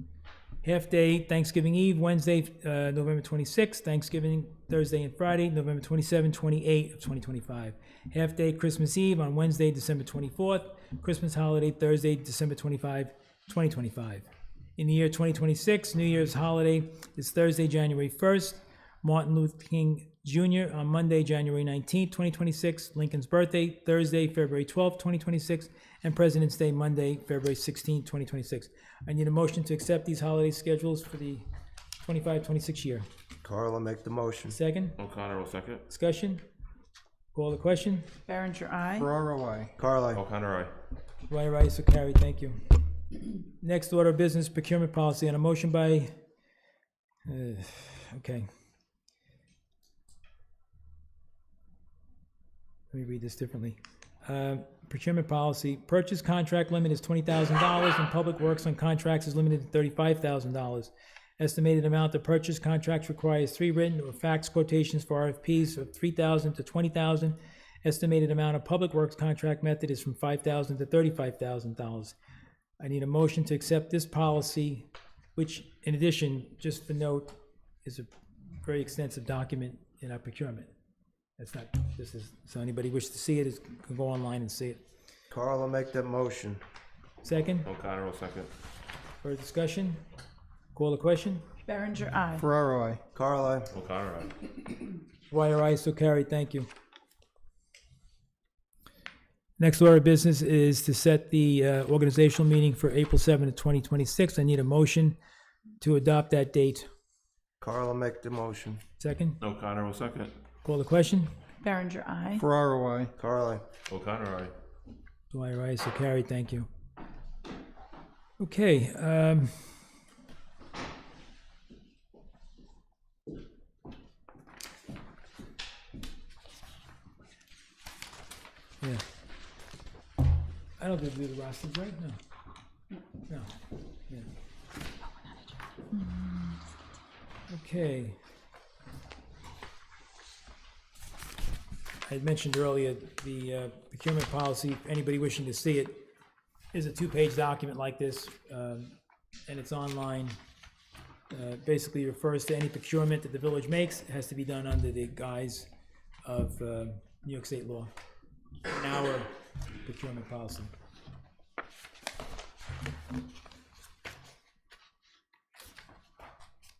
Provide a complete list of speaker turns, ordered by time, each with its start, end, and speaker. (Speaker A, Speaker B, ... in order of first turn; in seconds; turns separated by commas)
Speaker A: 0.6-14.3, Speaker A: 14.8-31.4, Speaker A: 32.0-33.0, Speaker B: 33.4-34.6, Speaker A: 34.5-35.0, Speaker C: 35.0-35.8, Speaker A: 35.9-36.4, Speaker A: 37.3-38.1, Speaker D: 38.3-39.1, Speaker E: 39.0-39.7, Speaker B: 39.8-40.2, Speaker C: 40.1-40.7, Speaker A: 41.3-42.6, Speaker A: 43.6-46.1, Speaker A: 47.3-48.5, Speaker A: 52.9-72.2, Speaker A: 72.8-78.1, Speaker A: 78.6-80.7, Speaker A: 81.4-84.8, Speaker B: 85.3-86.6, Speaker A: 87.2-87.7, Speaker C: 87.7-88.5, Speaker A: 89.2-90.0, Speaker A: 90.7-91.4, Speaker D: 91.7-92.5, Speaker E: 92.4-93.0, Speaker B: 93.1-93.7, Speaker C: 93.7-94.5, Speaker A: 95.3-96.7, Speaker A: 99.6-105.2, Speaker A: 105.8-106.9, Speaker B: 107.6-108.8, Speaker A: 109.0-109.4, Speaker C: 109.4-110.3, Speaker A: 110.6-111.3, Speaker D: 111.6-112.5, Speaker E: 112.4-113.1, Speaker B: 113.2-113.7, Speaker C: 113.9-114.5, Speaker A: 115.3-116.7, Speaker A: 118.4-119.7, Speaker A: 128.8-129.1, Speaker A: 130.8-132.2, Speaker A: 133.3-133.6, Speaker D: 135.9-136.6, Speaker A: 137.5-138.2, Speaker A: 142.1-146.1, Speaker A: 146.7-148.9, Speaker A: 149.5-150.4, Speaker A: 151.3-155.7, Speaker A: 156.2-157.9, Speaker A: 158.7-159.3, Speaker A: 159.8-160.7